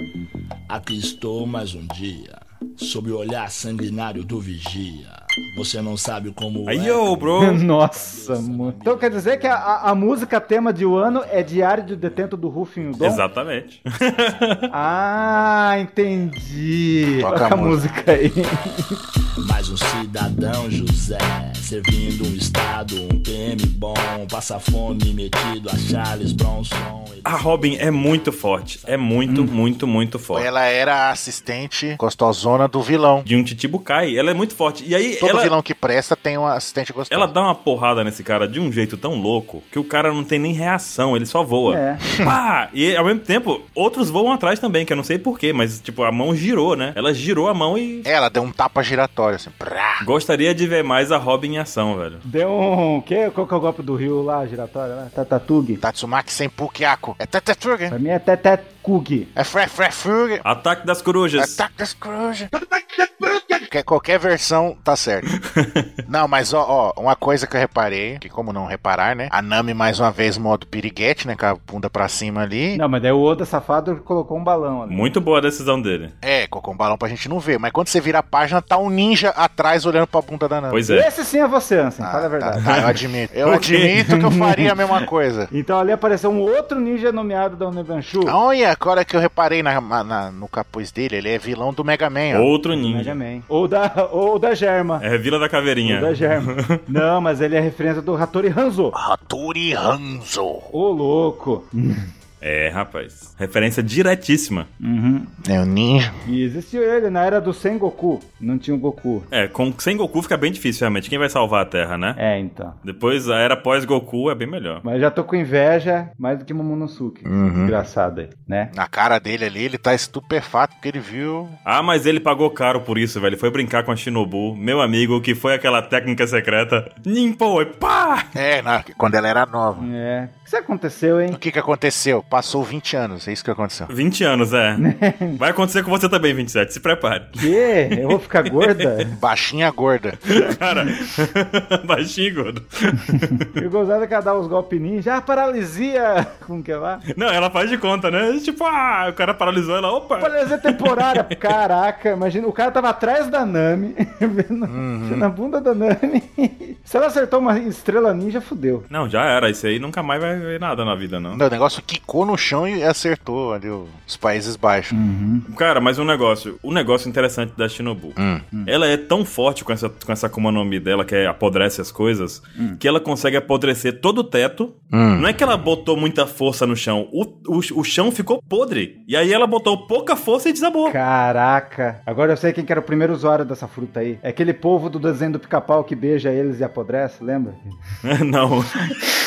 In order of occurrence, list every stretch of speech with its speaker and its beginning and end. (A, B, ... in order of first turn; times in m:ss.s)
0:00.7-0:10.2 A
0:06.6-0:07.6 B
0:07.4-0:13.2 C
0:11.1-0:12.3 A
0:13.0-0:14.7 B
0:14.7-0:19.0 C
0:14.9-0:15.5 A
0:17.2-0:17.8 D
0:19.4-0:29.0 A
0:27.2-0:30.5 B
0:30.3-0:33.2 D
0:33.2-0:35.5 B
0:35.2-0:37.3 D
0:37.1-0:48.1 B
0:41.7-0:42.0 C
0:42.1-0:42.4 D
0:48.0-0:50.1 D
0:50.0-0:52.2 B
0:52.2-0:55.8 C
0:55.8-0:57.9 D
0:57.9-0:59.3 C
0:59.4-1:00.4 D
1:00.4-1:01.6 B
1:01.4-1:02.5 D
1:02.7-1:03.6 C
1:03.7-1:05.3 D
1:05.3-1:05.9 B
1:06.1-1:12.8 D
1:12.7-1:15.0 C
1:14.9-1:16.1 B
1:16.2-1:20.8 D
1:20.7-1:21.1 B
1:20.9-1:22.9 C
1:22.0-1:25.5 D
1:22.6-1:24.0 B
1:24.0-1:24.7 C
1:25.5-1:28.4 C
1:28.2-1:32.5 D
1:32.3-1:33.2 B
1:32.7-1:35.0 C
1:35.0-1:36.8 B
1:35.8-1:39.0 C
1:38.9-1:40.7 D
1:40.7-1:42.1 C
1:42.4-1:44.7 B
1:44.8-1:45.3 C
1:45.4-1:46.1 D
1:46.2-1:49.3 C
1:49.3-1:52.2 B
1:52.2-1:52.8 C
1:52.8-1:54.8 B
1:54.8-1:58.7 C
1:57.2-1:57.7 D
1:58.7-2:01.6 D
2:01.6-2:08.3 B
2:08.3-2:09.9 D
2:09.8-2:11.4 C
2:11.3-2:13.9 D
2:13.9-2:14.8 B
2:14.8-2:15.4 C
2:15.4-2:17.4 B
2:17.4-2:19.2 C
2:17.9-2:18.8 B
2:19.1-2:20.2 D
2:20.3-2:23.5 B
2:23.3-2:27.0 C
2:27.1-2:31.5 B
2:30.2-2:38.8 C
2:34.7-2:35.3 D
2:38.9-2:41.4 B
2:41.3-2:45.0 D
2:44.9-2:45.4 C
2:45.5-3:01.0 B
2:48.2-2:48.4 D
2:54.9-2:55.3 D
3:00.9-3:07.8 C
3:08.0-3:09.0 B